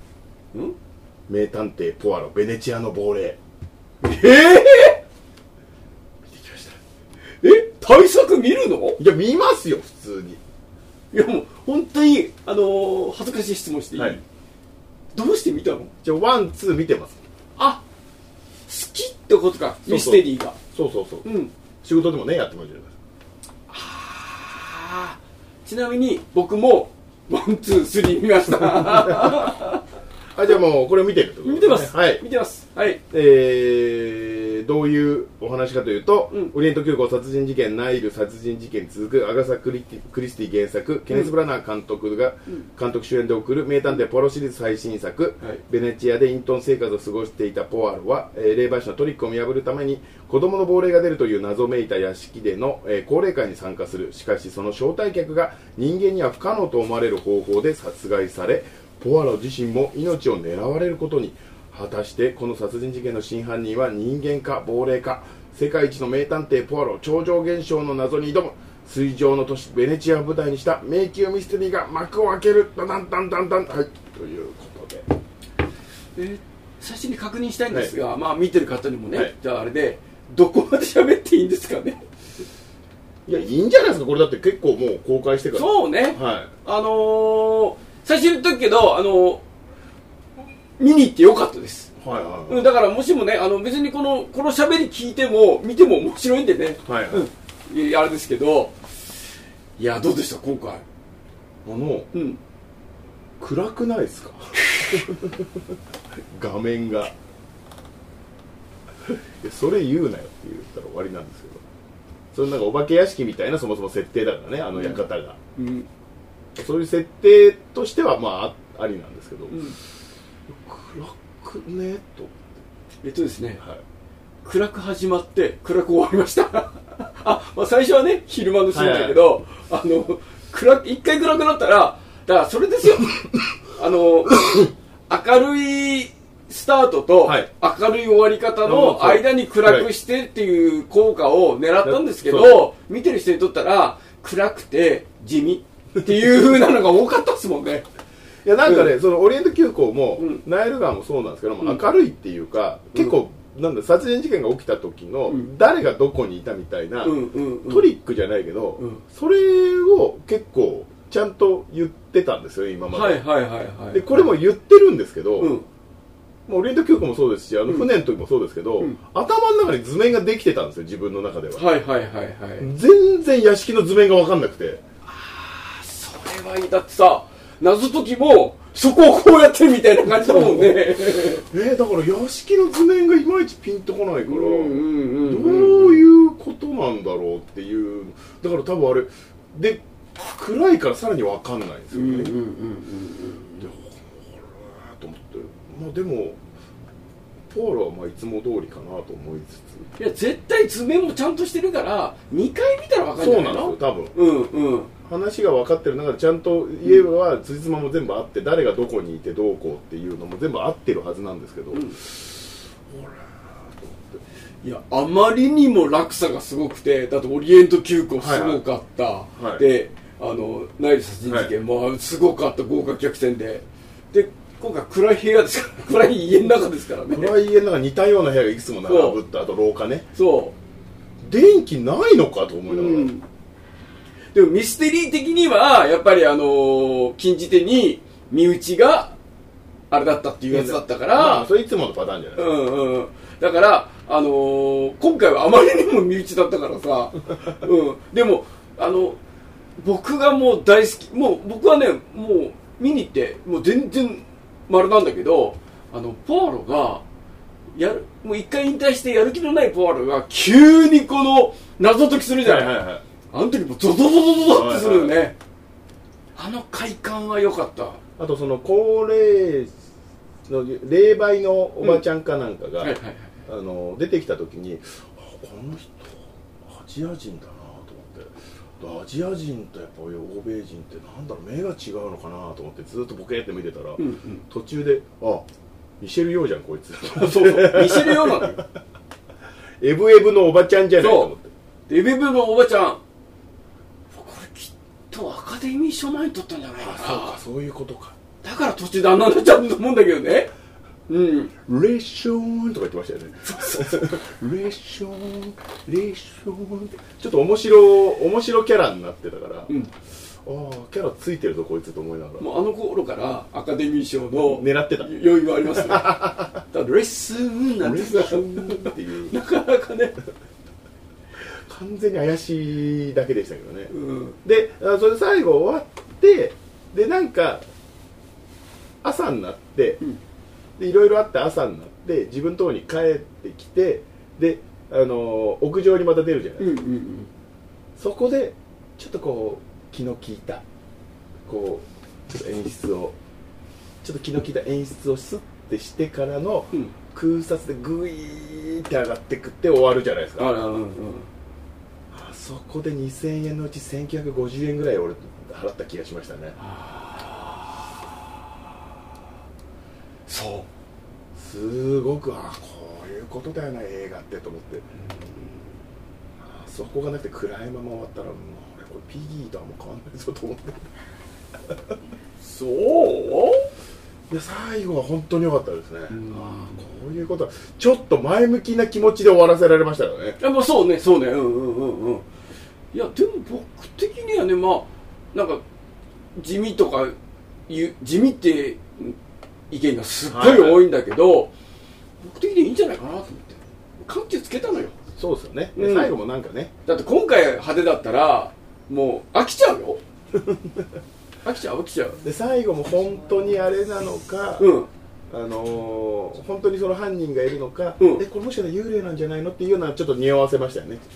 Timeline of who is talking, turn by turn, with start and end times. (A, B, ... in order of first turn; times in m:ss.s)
0:01.3-0:03.4 A
0:04.0-0:05.0 B
0:06.3-0:06.8 A
0:07.4-0:09.0 B
0:09.0-0:10.4 A
0:11.1-0:14.2 B
0:14.0-0:14.2 A
0:15.1-0:15.9 B
0:16.0-0:17.2 A
0:17.6-0:17.8 B
0:18.7-0:20.6 B
0:19.9-0:21.3 A
0:21.2-0:21.5 B
0:21.8-0:22.9 A
0:23.7-0:29.8 B
0:28.7-0:29.5 A
0:30.4-0:32.2 A
0:31.4-0:33.0 B
0:33.1-1:15.0 A
1:16.2-1:22.0 B
1:23.3-1:26.5 A
1:25.5-1:29.4 B
1:30.8-1:31.9 B
1:32.0-1:32.6 A
1:32.5-1:38.9 B
1:36.8-1:37.3 A
1:39.8-1:40.8 B
1:41.6-1:42.1 A
1:42.1-1:42.4 B
1:43.4-1:45.5 A
1:46.3-1:47.1 A
1:49.1-1:51.6 A
1:52.3-1:55.4 A
1:54.8-1:55.0 B
1:55.6-1:55.9 B
1:56.6-1:59.6 A
1:59.5-1:59.8 B
2:00.5-2:02.5 A
2:03.0-2:03.6 B
2:04.4-2:27.9 B
2:08.7-2:09.2 A
2:18.6-2:19.9 A
2:21.8-2:22.7 A
2:28.4-2:43.2 A
2:28.6-2:28.9 B
2:30.2-2:30.4 B
2:37.0-2:37.9 B
2:42.9-2:44.3 B
2:43.9-2:45.6 A
2:45.4-2:45.6 B
2:46.5-2:51.7 A
2:51.6-2:52.7 B
2:52.6-2:54.8 A
2:55.1-3:01.5 B
3:00.1-3:12.4 A
3:04.2-3:06.0 B
3:11.9-3:13.7 B
3:13.6-3:16.4 A
3:17.5-3:19.8 A
3:20.0-3:24.9 B
3:23.2-3:24.2 A
3:25.0-3:34.2 A
3:34.6-3:47.4 B
3:38.2-3:38.6 A
3:39.4-3:39.7 A
3:41.2-3:41.5 A
3:47.1-3:50.1 A
3:48.8-3:49.2 B
3:50.1-3:50.6 B
3:51.2-3:53.1 A
3:52.7-3:53.2 B
3:54.3-3:59.2 B
3:59.9-4:01.5 B
4:00.5-4:02.5 A
4:02.4-4:09.2 B
4:09.8-4:17.0 B
4:17.8-4:25.4 B
4:22.4-4:23.0 A
4:24.4-4:25.2 A
4:26.4-4:28.0 B
4:28.2-4:29.7 A
4:30.5-4:45.5 A
4:32.8-4:33.3 B
4:44.0-4:44.4 B
4:46.0-4:48.6 A
4:47.2-4:48.6 B
4:49.8-4:51.5 A
4:51.0-4:51.3 B
4:51.9-4:53.0 B
4:54.1-4:57.4 B
4:56.8-4:58.2 A
4:58.4-5:00.5 B
5:01.1-5:01.5 B
5:01.7-5:09.7 A
5:03.4-5:04.2 B
5:10.4-5:12.5 A
5:12.4-5:20.2 B
5:14.3-5:15.1 A
5:15.7-5:16.6 A
5:17.8-5:19.4 A
5:21.4-5:23.9 A
5:23.9-5:24.4 B
5:24.4-5:27.6 A
5:29.0-5:30.0 A
5:30.8-5:36.8 A
5:36.6-5:37.3 B
5:38.0-5:40.6 A
5:41.5-5:43.2 A
5:44.0-5:50.5 A
5:50.4-5:51.3 B
5:52.1-5:56.6 A
5:56.6-5:57.7 B
6:00.3-6:00.7 B
6:01.4-6:04.9 A
6:05.0-6:05.6 B
6:06.4-6:10.9 A
6:12.4-6:13.6 B
6:14.3-6:20.4 A
6:16.1-6:16.8 B
6:20.4-6:22.3 B
6:22.9-6:25.6 B
6:26.4-6:27.2 B
6:27.7-6:29.2 B
6:29.7-6:31.5 B
6:30.3-6:30.8 A
6:32.2-6:35.0 B
6:35.1-6:36.7 A
6:35.8-6:36.2 B
6:36.9-6:40.0 B
6:41.4-6:42.2 B
6:42.2-6:44.7 A
6:44.6-6:44.9 B
6:45.3-6:51.0 A
6:48.0-6:48.2 B